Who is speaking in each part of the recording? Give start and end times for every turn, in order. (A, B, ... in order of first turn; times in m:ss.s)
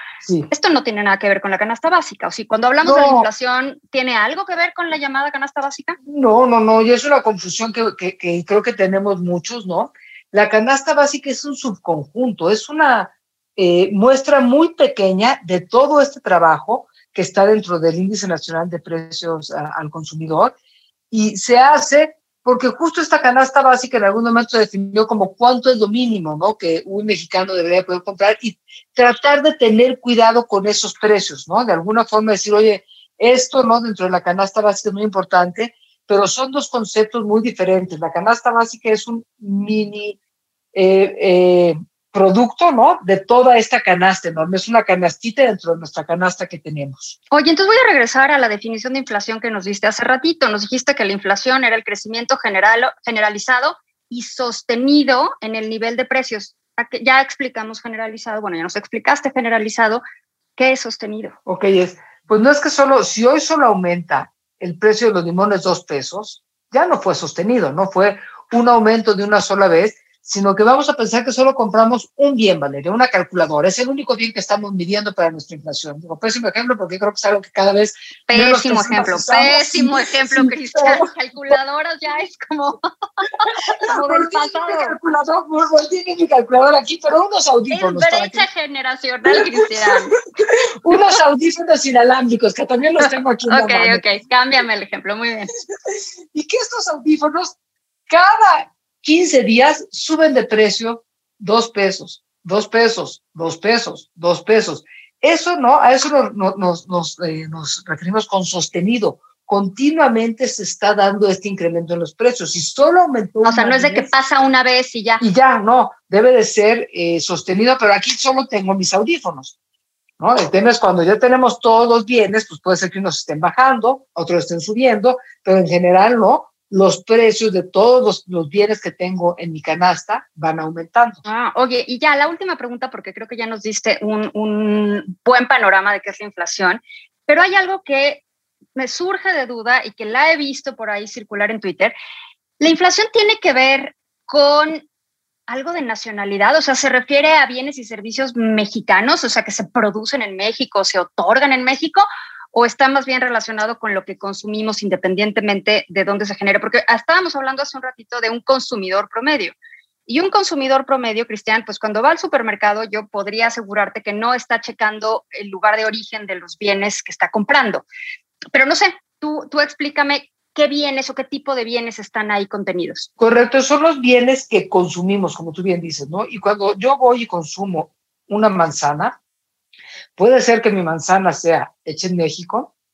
0:00.2-0:00.5 A
0:00.5-0:06.0 B
0:02.8-0:03.3 A
0:06.0-0:20.6 A
0:21.1-0:40.2 A
0:40.7-0:47.2 A
0:47.3-1:00.0 B
1:00.6-1:01.4 B
1:01.5-1:21.1 A
1:18.3-1:25.0 B
1:23.8-1:28.5 A
1:27.7-1:30.2 B
1:29.3-1:34.1 A
1:33.5-1:35.5 B
1:35.8-1:37.6 A
1:38.1-1:54.1 A
1:53.4-1:55.2 B
1:55.2-1:59.5 A
2:00.2-2:11.2 A
2:11.2-2:18.2 B
2:18.8-2:21.9 B
2:22.6-2:24.8 B
2:25.5-2:39.6 B
2:40.1-2:47.8 B
2:48.5-2:53.1 B
2:53.2-2:59.2 A
3:00.2-3:02.7 A